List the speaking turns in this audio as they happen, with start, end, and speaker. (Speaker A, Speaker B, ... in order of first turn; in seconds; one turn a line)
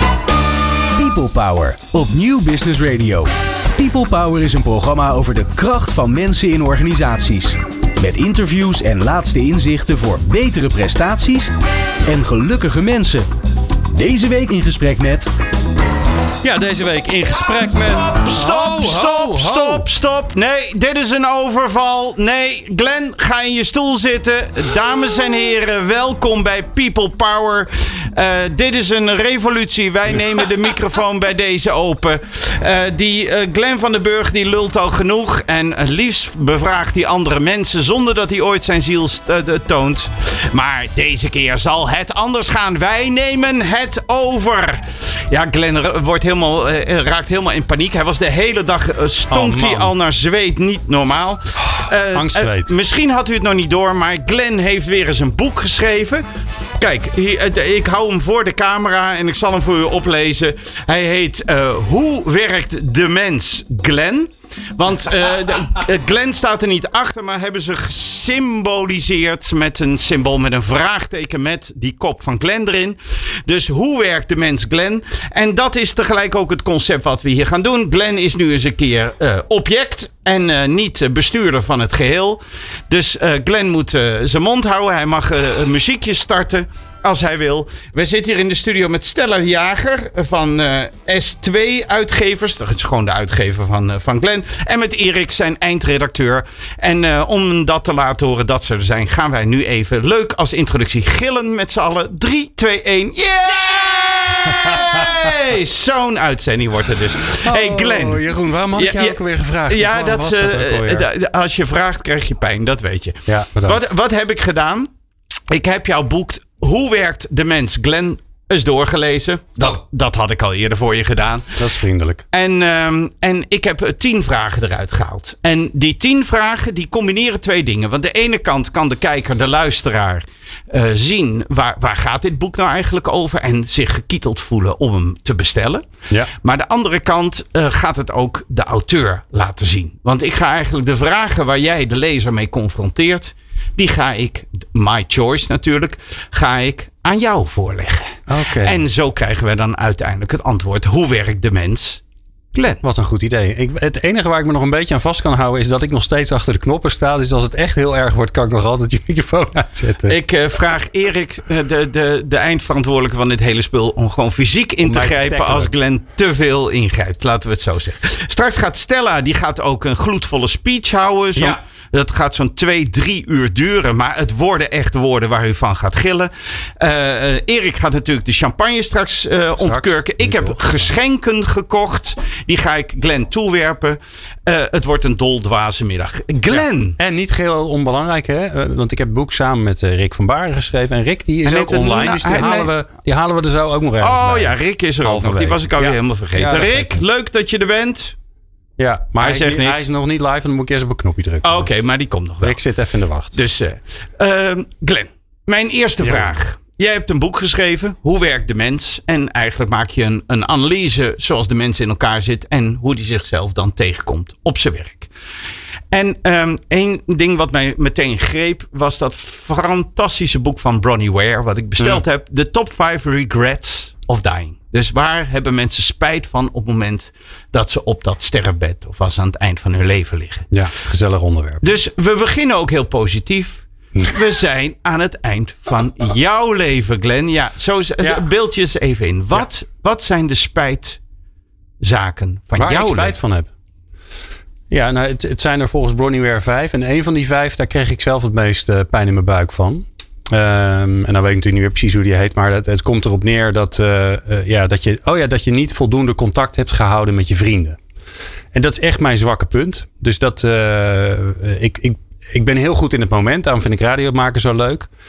Speaker A: 0.9-11.5
Speaker A: 12.1-13.2
Speaker A: 13.9-15.3
Speaker B: 16.4-19.8
Speaker C: 18.2-56.2
Speaker B: 49.3-49.9
Speaker B: 51.6-52.7
Speaker C: 56.8-108.2
Speaker B: 104.6-105.1
Speaker B: 107.3-111.1
Speaker C: 108.8-114.9
Speaker B: 113.3-113.8
Speaker C: 115.5-121.6
Speaker B: 121.6-122.2
Speaker C: 122.3-135.9
Speaker C: 136.4-152.0
Speaker B: 148.3-148.8
Speaker C: 152.5-152.8
Speaker B: 152.8-160.2
Speaker C: 160.1-187.0
Speaker B: 164.8-165.7
Speaker B: 179.6-180.9
Speaker B: 186.5-197.0
Speaker C: 191.4-192.7
Speaker C: 194.0-198.2
Speaker B: 198.8-201.7
Speaker C: 199.2-199.8
Speaker C: 201.4-202.6
Speaker B: 202.4-203.4
Speaker C: 203.3-215.1
Speaker B: 206.0-206.3
Speaker C: 215.9-230.5
Speaker B: 230.5-231.7
Speaker C: 231.6-241.0
Speaker B: 238.0-238.2
Speaker C: 241.8-243.1
Speaker B: 242.6-243.5
Speaker B: 244.7-257.8
Speaker B: 258.5-264.9